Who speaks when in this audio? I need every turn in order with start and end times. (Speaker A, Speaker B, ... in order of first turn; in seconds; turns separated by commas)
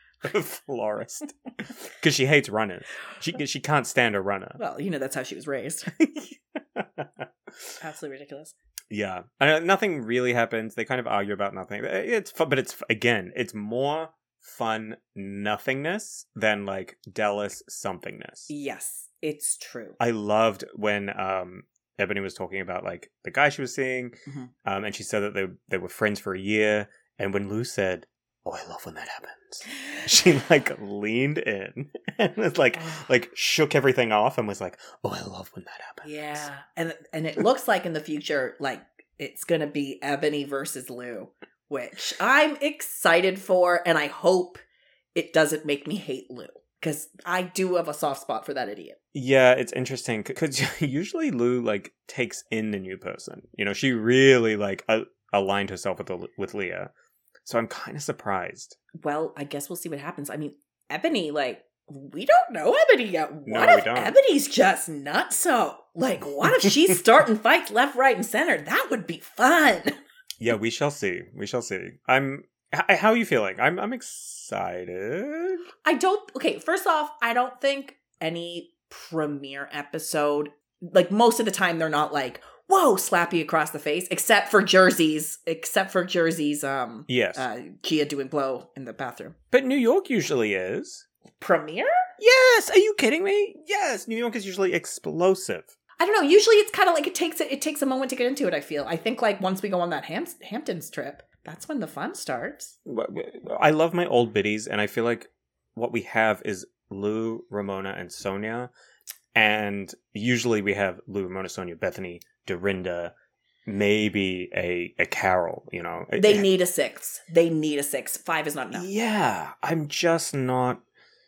Speaker A: 0.2-4.6, Speaker B: 4.6-6.0, Speaker A: 6.7-7.3, Speaker B: 7.8-8.5, Speaker A: 8.9-18.5, Speaker B: 18.5-20.0, Speaker A: 20.0-36.5, Speaker B: 32.8-33.0, Speaker B: 36.0-44.6, Speaker B: 45.1-49.0, Speaker A: 49.1-56.9, Speaker A: 57.4-58.8, Speaker B: 58.9-69.9, Speaker A: 63.5-64.2, Speaker A: 70.4-75.6, Speaker B: 75.8-89.3, Speaker A: 87.1-87.4, Speaker A: 89.5-91.0, Speaker B: 91.4-92.0, Speaker A: 92.2-95.7, Speaker B: 96.0-102.8, Speaker A: 102.8-108.7, Speaker A: 109.3-113.1, Speaker A: 113.7-116.4, Speaker B: 116.2-118.9, Speaker A: 118.7-120.8